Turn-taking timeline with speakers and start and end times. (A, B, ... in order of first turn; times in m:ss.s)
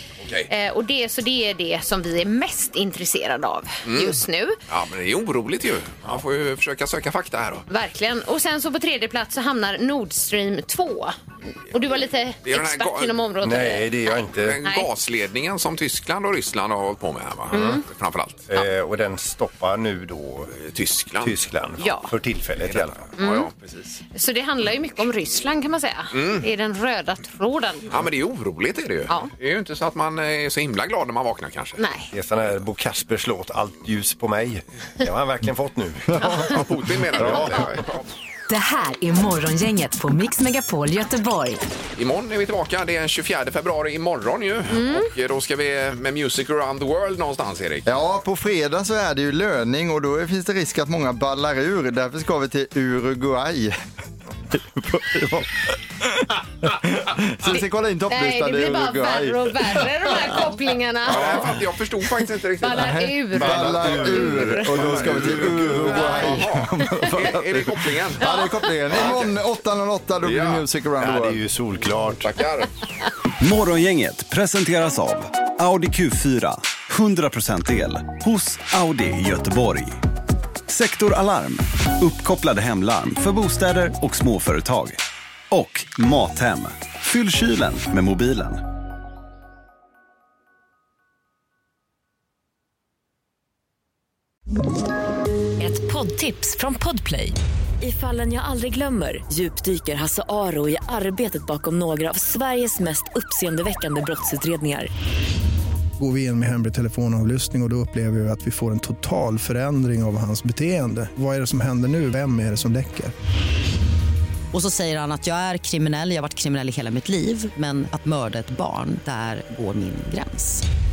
0:00.2-0:00.5 A
0:00.5-0:04.6 B
0:03.9-0:07.7 A
0:07.7-0:11.2 B
0:11.7-0:14.9 B
0:12.4-0:13.2 A
0:13.4-0:14.6 C
0:14.3-0:18.5 A
0:17.5-0:17.8 C
0:17.5-0:17.8 B
0:18.5-0:20.6 C
0:20.6-0:21.3 A
0:21.2-0:23.0 C
0:21.8-0:22.1 B
0:22.6-0:24.0 A
0:23.2-0:23.5 B
0:24.1-0:27.9 B
0:26.1-0:26.5 A
0:27.9-0:31.8 A
0:31.8-0:32.1 B
0:32.1-0:36.6 C
0:36.2-0:36.6 B
0:36.4-0:38.0 A
0:37.2-0:37.7 C
0:38.5-0:41.6 D
0:42.0-0:47.9 A
0:44.7-0:45.1 B
0:47.9-0:53.8 E
0:54.5-0:55.5 E
0:56.6-1:00.3 E
0:57.5-1:01.4 B
1:01.1-1:03.0 A
1:02.6-1:04.3 B
1:02.7-1:11.4 E
1:03.3-1:06.2 C
1:04.7-1:08.3 A
1:08.2-1:08.5 B
1:08.9-1:09.3 A
1:10.2-1:10.6 A
1:11.0-1:12.3 C
1:12.2-1:12.7 A
1:13.4-1:20.0 F
1:20.7-1:25.0 F
1:25.5-1:28.6 F
1:35.7-1:44.9 G
1:46.0-1:53.1 H
1:54.5-2:00.6 I